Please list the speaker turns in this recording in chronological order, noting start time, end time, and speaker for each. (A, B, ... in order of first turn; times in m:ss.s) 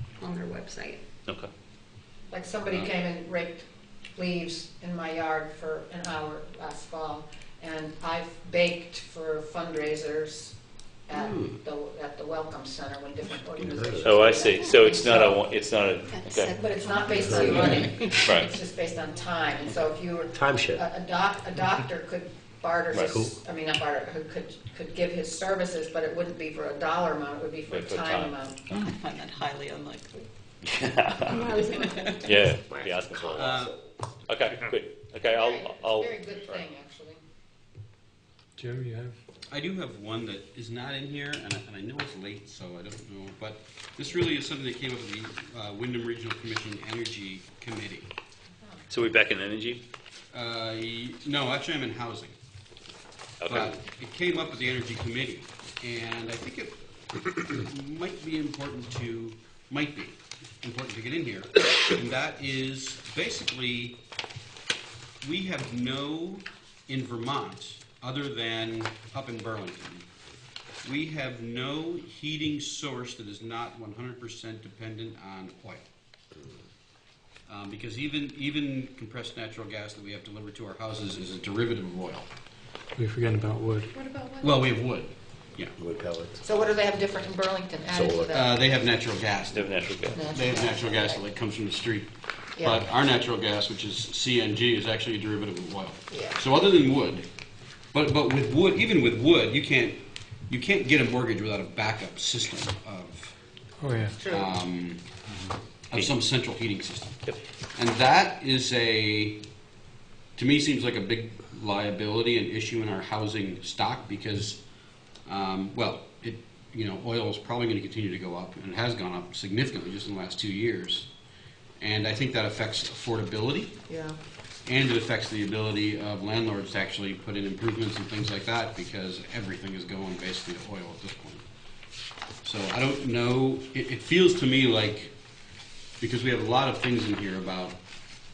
0:00.2-0:01.0 A
0:02.3-0:10.6 B
0:11.1-0:15.4 B
0:11.2-0:11.5 C
0:13.6-0:14.1 C
0:14.0-0:16.6 D
0:14.5-0:14.8 E
0:16.0-0:18.1 E
0:16.5-0:28.6 B
0:17.2-0:18.0 C
0:18.2-0:18.6 D
0:20.3-0:20.8 C
0:23.0-0:23.4 C
0:27.7-0:28.9 D
0:28.7-0:30.3 E
0:30.6-0:31.5 D
0:31.2-0:32.4 A
0:31.6-0:33.4 E
0:32.2-0:33.7 D
0:33.3-0:33.8 F
0:34.3-0:36.6 D
0:35.2-0:37.2 B
0:38.6-0:39.2 G
0:39.5-0:48.1 F
0:48.6-0:48.8 B
0:48.9-0:49.8 D
0:50.3-0:52.4 F
0:53.4-0:53.8 D
0:53.5-1:04.0 F
1:05.2-1:10.1 F
1:10.8-1:15.9 F
1:17.5-1:22.3 F
1:23.0-1:23.9 G
1:24.0-1:24.4 B
1:24.4-1:25.7 F
1:25.8-1:26.6 C
1:26.4-1:28.6 B
1:27.9-1:28.4 C
1:28.3-1:37.3 F
1:29.5-1:30.2 D
1:30.1-1:31.2 B
1:32.5-1:32.8 B
1:36.1-1:36.4 B
1:37.9-1:43.3 F
1:43.8-1:44.2 G
1:44.1-1:44.5 B
1:44.2-1:45.0 F
1:45.9-1:47.2 F
1:47.7-1:49.4 F
1:50.4-1:54.6 F
1:55.2-2:01.1 F
2:01.8-2:03.8 F
2:04.6-2:11.4 F
2:12.4-2:15.1 F
2:16.0-2:17.8 F